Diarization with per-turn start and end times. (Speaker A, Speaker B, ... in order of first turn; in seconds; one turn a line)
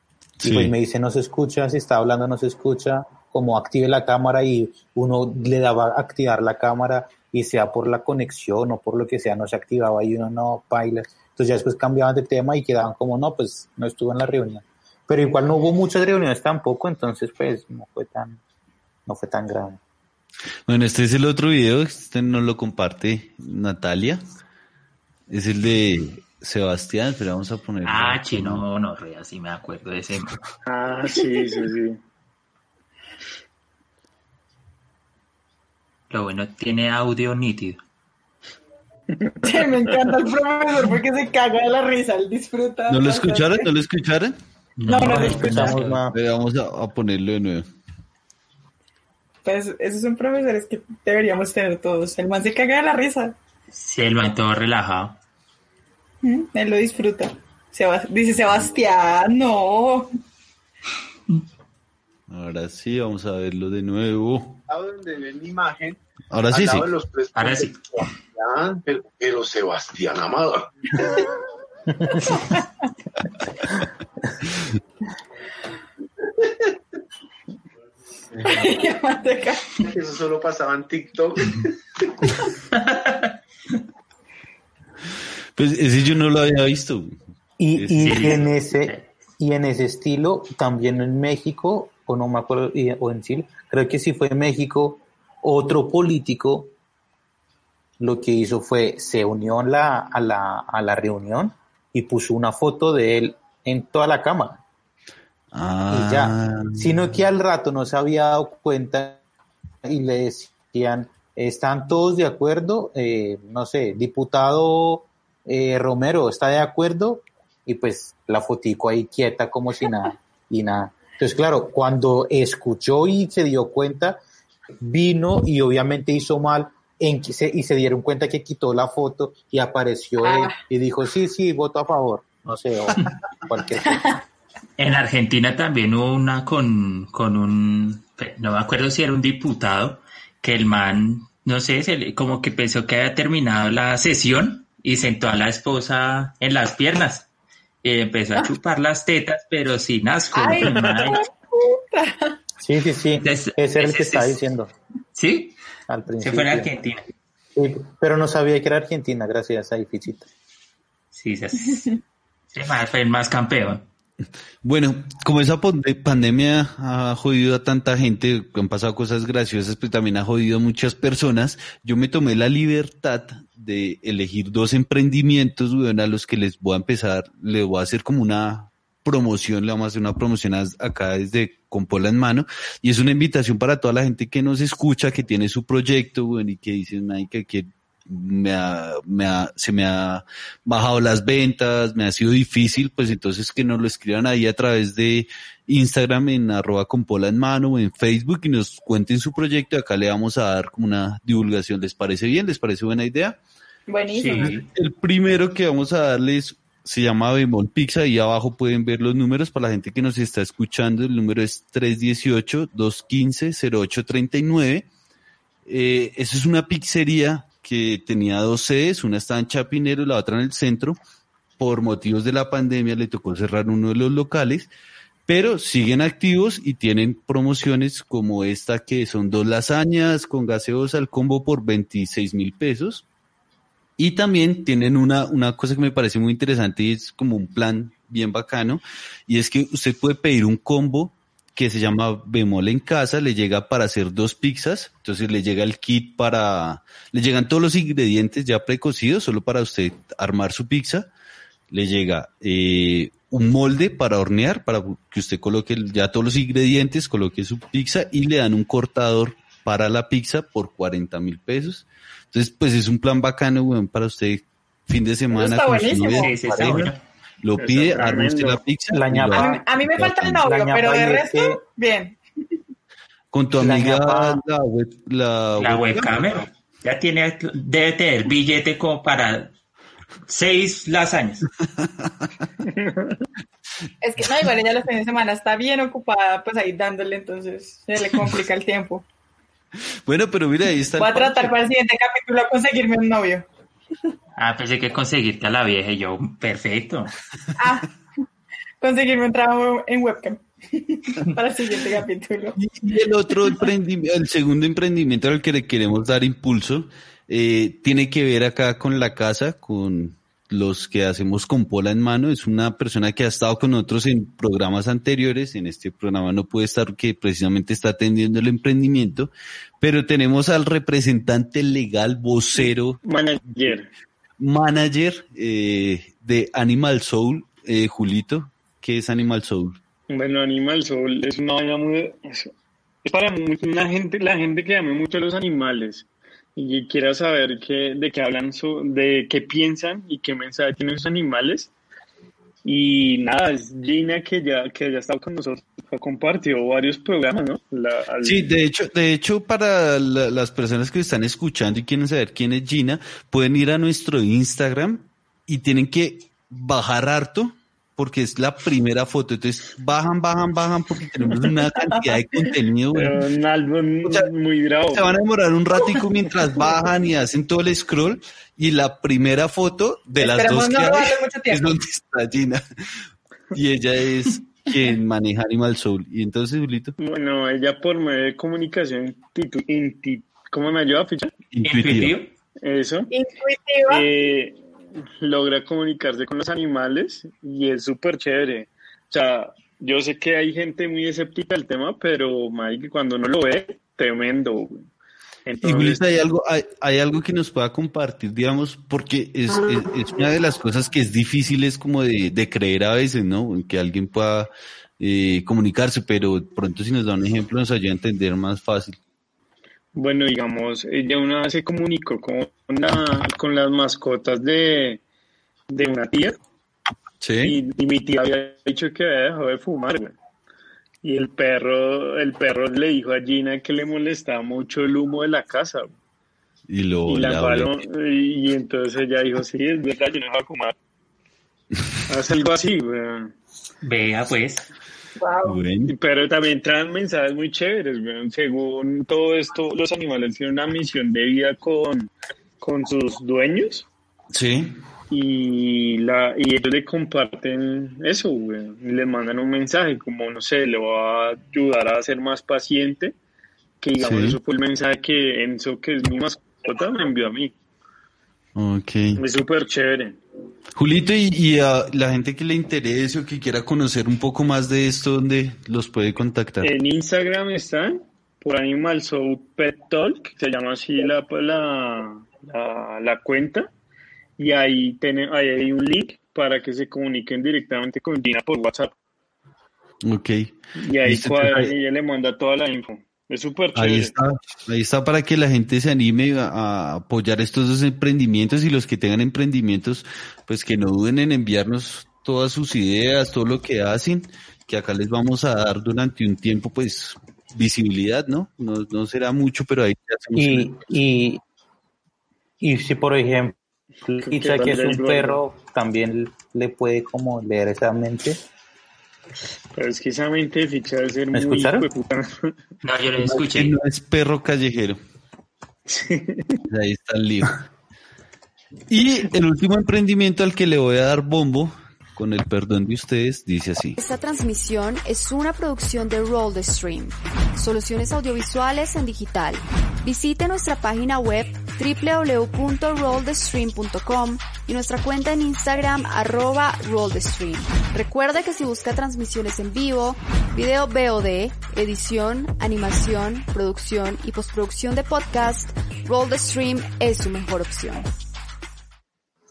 Speaker A: 0.4-0.7
Speaker B: 0.4-18.4
Speaker B: 19.1-19.8
Speaker A: 20.7-24.2
Speaker A: 25.3-28.6
Speaker C: 27.8-30.4
Speaker D: 30.7-32.0
Speaker C: 36.1-37.8
Speaker E: 39.4-43.7
Speaker A: 42.9-44.4
Speaker C: 44.8-46.0
Speaker E: 44.9-45.8
Speaker B: 45.1-46.2
Speaker A: 46.1-47.7
Speaker E: 49.5-53.4
Speaker C: 53.7-55.2
Speaker E: 56.2-60.1
Speaker A: 62.3-64.6
Speaker F: 64.7-71.2
Speaker A: 66.3-66.9
Speaker C: 67.4-67.8
Speaker E: 72.2-72.9
Speaker E: 78.4-79.8
Speaker F: 79.8-81.7
Speaker C: 82.8-83.3
Speaker A: 85.6-87.2
Speaker B: 87.6-96.7
Speaker A: 87.8-88.4
Speaker C: 88.0-89.0
Speaker B: 98.0-104.6
Speaker A: 105.5-107.0
Speaker B: 105.9-109.2
Speaker B: 109.8-124.2
Speaker B: 124.8-134.2
Speaker E: 130.2-130.6
Speaker C: 134.8-147.3
Speaker C: 147.8-151.2
Speaker E: 150.3-152.4
Speaker B: 152.6-154.7
Speaker C: 153.2-154.4
Speaker C: 155.2-155.6
Speaker B: 155.9-156.7
Speaker C: 156.2-157.1
Speaker B: 157.6-160.3
Speaker C: 161.1-161.9
Speaker C: 162.5-163.8
Speaker A: 164.6-203.4
Speaker E: 203.9-204.5
Speaker C: 204.2-204.7
Speaker A: 204.4-214.9
Speaker A: 215.7-221.0
Speaker A: 221.6-224.7
Speaker A: 225.3-233.1
Speaker A: 234.0-251.1
Speaker A: 251.7-270.1
Speaker E: 265.3-266.4
Speaker C: 266.1-267.0
Speaker D: 267.6-268.6
Speaker B: 268.9-271.6
Speaker E: 269.3-272.2
Speaker A: 273.3-276.3
Speaker B: 273.6-274.4
Speaker C: 275.6-279.5
Speaker C: 280.3-281.5
Speaker D: 282.7-283.2
Speaker E: 284.0-289.1
Speaker A: 290.1-291.5
Speaker E: 291.0-293.4
Speaker C: 294.4-297.1
Speaker E: 297.6-297.9
Speaker E: 298.8-302.6
Speaker A: 302.6-323.7
Speaker D: 322.6-323.9
Speaker A: 324.4-329.8
Speaker D: 330.1-332.5
Speaker D: 333.1-341.7
Speaker D: 342.6-348.5
Speaker A: 348.2-363.2
Speaker E: 361.9-362.1
Speaker D: 362.9-365.1
Speaker A: 364.9-373.0
Speaker E: 370.2-371.7
Speaker A: 373.5-376.9
Speaker D: 377.0-381.3
Speaker A: 381.5-382.2
Speaker C: 381.6-382.3
Speaker D: 382.6-383.1
Speaker E: 383.1-384.1
Speaker D: 383.9-384.6
Speaker D: 385.2-394.9
Speaker D: 395.5-396.0
Speaker A: 395.6-409.0
Speaker D: 410.0-415.0
Speaker D: 415.7-416.4
Speaker A: 417.2-417.6
Speaker D: 417.4-420.1
Speaker D: 421.0-425.9
Speaker A: 426.7-427.7
Speaker D: 427.1-430.8
Speaker D: 432.1-433.3
Speaker C: 433.8-434.7
Speaker E: 435.2-435.6
Speaker A: 435.4-435.9
Speaker D: 435.9-443.9
Speaker A: 444.3-444.8
Speaker D: 445.1-453.1
Speaker D: 453.8-457.5
Speaker A: 454.0-454.4
Speaker A: 458.6-459.2
Speaker D: 459.2-460.2
Speaker A: 460.8-466.7
Speaker D: 466.6-473.7
Speaker D: 474.4-478.9
Speaker A: 480.0-481.7
Speaker D: 480.8-484.1
Speaker A: 483.8-500.7
Speaker B: 500.4-501.4
Speaker B: 502.6-508.4
Speaker D: 504.2-505.4
Speaker D: 509.7-512.5
Speaker B: 511.3-511.9
Speaker C: 512.8-513.7
Speaker A: 513.2-515.0
Speaker D: 515.9-516.6
Speaker A: 516.7-517.7
Speaker A: 518.9-524.0
Speaker G: 524.0-548.1